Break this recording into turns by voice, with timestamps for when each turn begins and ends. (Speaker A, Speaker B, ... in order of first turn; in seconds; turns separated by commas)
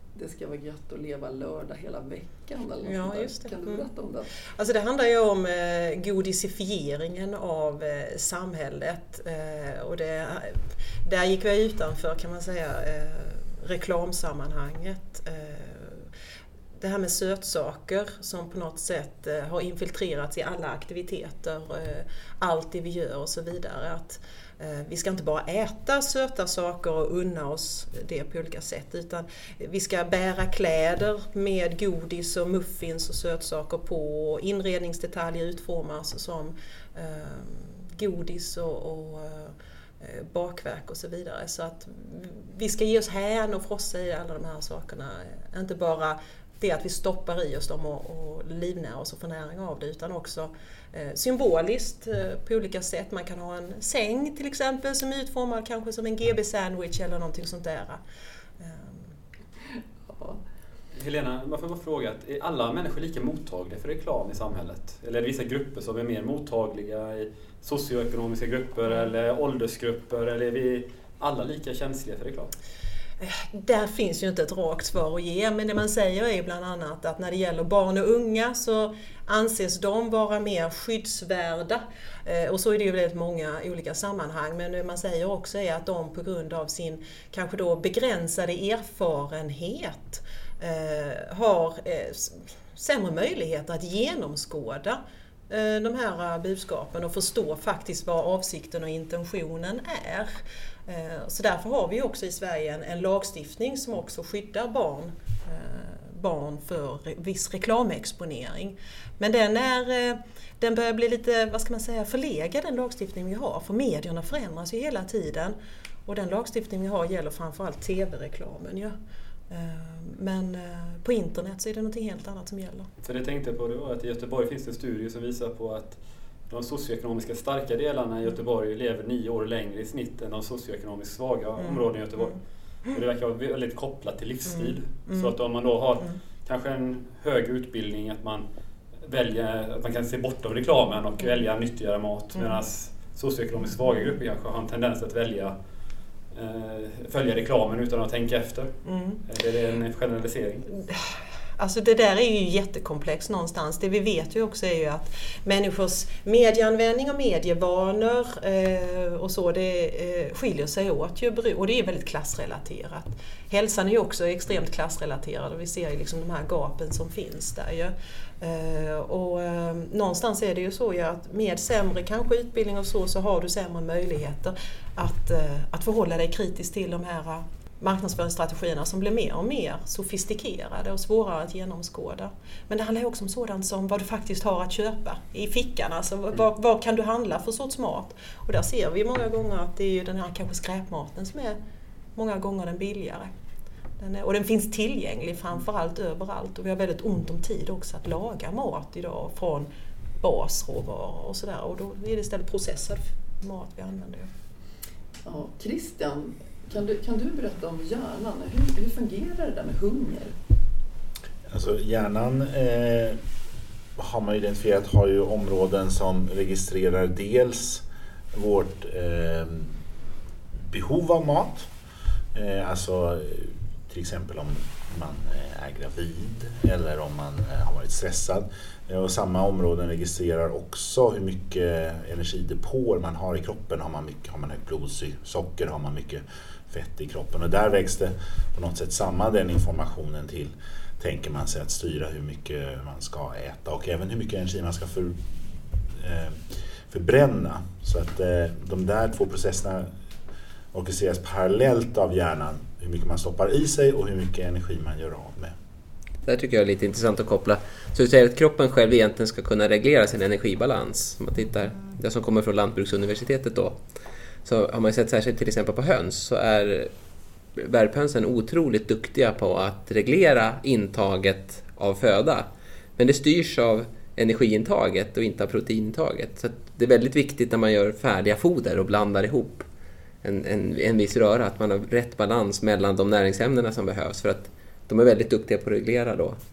Speaker A: 0.1-4.3, Speaker B: 2.8-3.8, Speaker B: 4.6-16.1, Speaker B: 16.8-58.0, Speaker B: 58.6-59.1, Speaker A: 60.1-60.4, Speaker C: 61.0-72.5, Speaker B: 73.2-119.0, Speaker B: 119.5-122.9, Speaker C: 123.0-138.5, Speaker B: 134.5-135.3, Speaker C: 139.0-145.6, Speaker B: 142.3-142.6, Speaker C: 146.3-148.7, Speaker B: 148.8-149.2, Speaker C: 149.3-150.7, Speaker B: 150.8-191.6, Speaker B: 192.2-193.3, Speaker B: 194.0-199.7, Speaker B: 200.2-204.3, Speaker A: 205.2-210.3, Speaker D: 211.5-213.2, Speaker D: 214.0-219.8, Speaker D: 220.7-221.7, Speaker D: 222.3-249.9, Speaker D: 250.7-255.5, Speaker E: 256.2-263.8, Speaker E: 264.4-266.9, Speaker E: 267.6-279.7, Speaker E: 280.2-286.4